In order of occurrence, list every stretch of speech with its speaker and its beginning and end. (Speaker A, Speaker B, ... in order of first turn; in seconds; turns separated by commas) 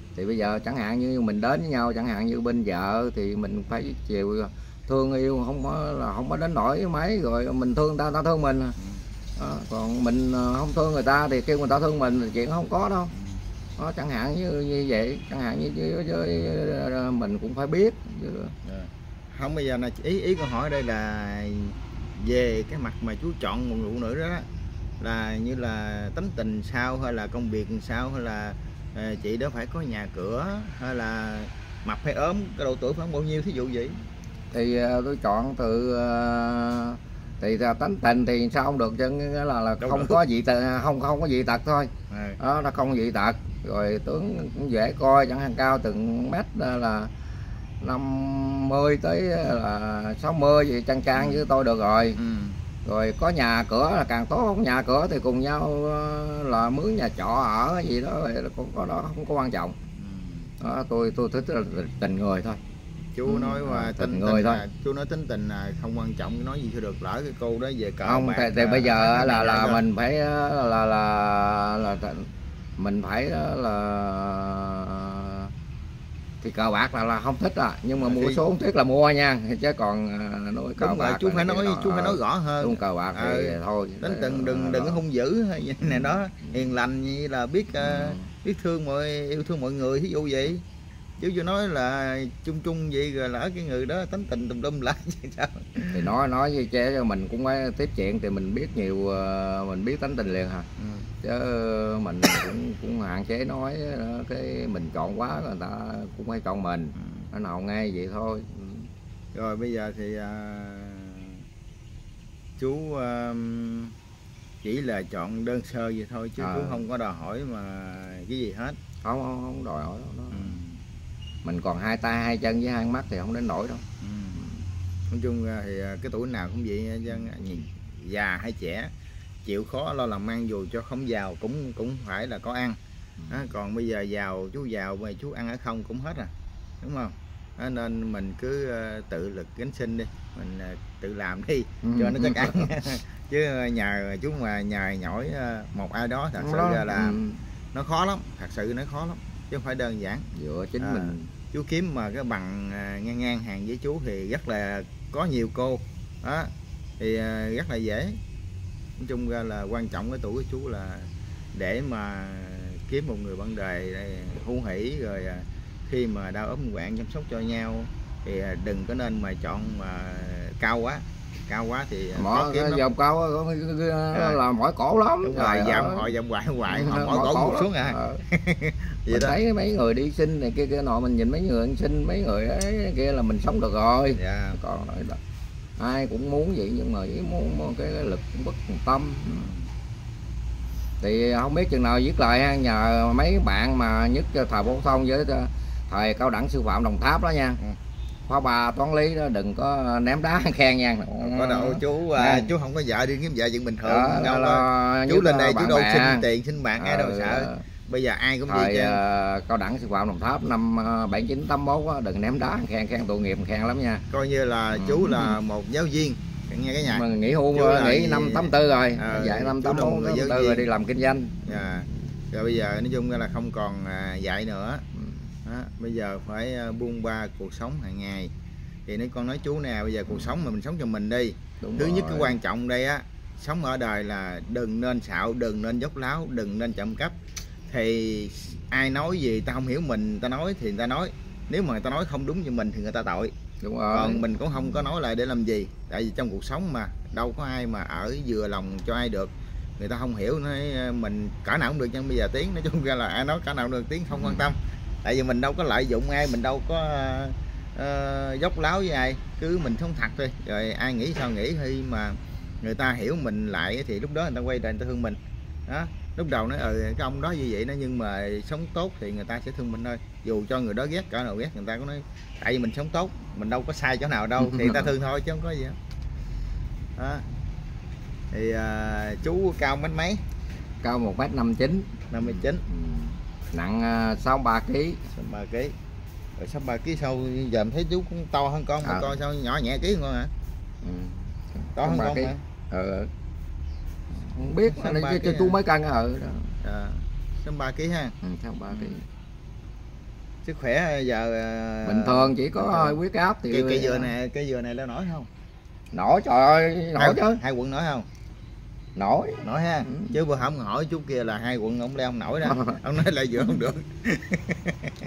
Speaker A: 0.1-8.8, Speaker A: 9.4-13.1, Speaker B: 13.1-13.4, Speaker A: 13.8-18.6, Speaker B: 18.6-24.5, Speaker B: 25.0-34.0, Speaker A: 34.5-47.1, Speaker B: 39.8-40.2, Speaker B: 42.1-42.4, Speaker A: 47.8-52.2, Speaker B: 51.1-51.5, Speaker B: 52.2-52.6, Speaker A: 52.9-59.8, Speaker B: 60.0-60.5, Speaker A: 60.6-62.6, Speaker B: 63.1-69.8, Speaker A: 63.3-64.6, Speaker A: 68.0-75.5, Speaker A: 76.4-85.0, Speaker B: 78.0-78.4, Speaker B: 80.8-90.6, Speaker A: 85.8-86.6, Speaker A: 87.8-88.3, Speaker B: 91.2-96.0, Speaker A: 95.9-100.7, Speaker B: 100.8-101.1, Speaker A: 101.2-108.9, Speaker B: 107.0-107.3, Speaker B: 109.3-111.4, Speaker B: 112.6-113.9, Speaker B: 114.6-118.8, Speaker A: 116.4-116.9, Speaker A: 119.0-120.6, Speaker B: 120.3-120.8, Speaker A: 121.4-123.8, Speaker B: 124.0-124.5, Speaker B: 125.1-128.9, Speaker A: 127.1-127.6, Speaker B: 129.4-132.8, Speaker A: 133.2-133.5, Speaker B: 133.3-147.2, Speaker A: 141.8-142.7, Speaker A: 146.4-147.4, Speaker B: 147.7-150.3, Speaker A: 150.3-151.3, Speaker B: 150.8-158.2, Speaker B: 159.0-172.8, Speaker A: 172.2-176.1, Speaker B: 174.1-174.4, Speaker B: 175.2-179.4, Speaker A: 176.7-178.2, Speaker A: 179.1-185.2, Speaker B: 184.2-184.6, Speaker A: 185.8-189.5, Speaker B: 189.3-189.7, Speaker A: 191.0-197.6, Speaker A: 198.3-202.5, Speaker B: 201.2-209.0, Speaker A: 203.8-206.3, Speaker A: 206.8-207.6, Speaker A: 208.5-214.0, Speaker B: 214.1-220.7, Speaker A: 214.8-215.4, Speaker A: 216.9-221.7, Speaker B: 221.4-224.8, Speaker A: 224.9-225.3, Speaker B: 225.4-228.3, Speaker B: 228.9-237.2, Speaker A: 230.1-230.3, Speaker A: 231.6-232.4, Speaker B: 237.7-243.3, Speaker A: 243.6-244.6, Speaker B: 243.9-275.8, Speaker A: 254.1-254.5, Speaker A: 274.4-274.9, Speaker B: 277.0-277.2, Speaker B: 278.3-280.2, Speaker A: 280.8-285.1, Speaker B: 282.1-282.6, Speaker B: 285.1-285.7, Speaker B: 286.4-290.3, Speaker A: 288.8-289.1, Speaker A: 290.8-293.1, Speaker B: 291.8-292.4, Speaker A: 294.1-296.6, Speaker B: 294.7-295.6, Speaker B: 296.6-298.2, Speaker A: 298.2-299.1, Speaker B: 300.4-303.0, Speaker A: 301.9-304.1, Speaker B: 303.5-305.3, Speaker A: 305.9-307.4, Speaker B: 307.0-308.1, Speaker A: 309.0-310.2, Speaker B: 309.4-314.9, Speaker A: 312.4-312.8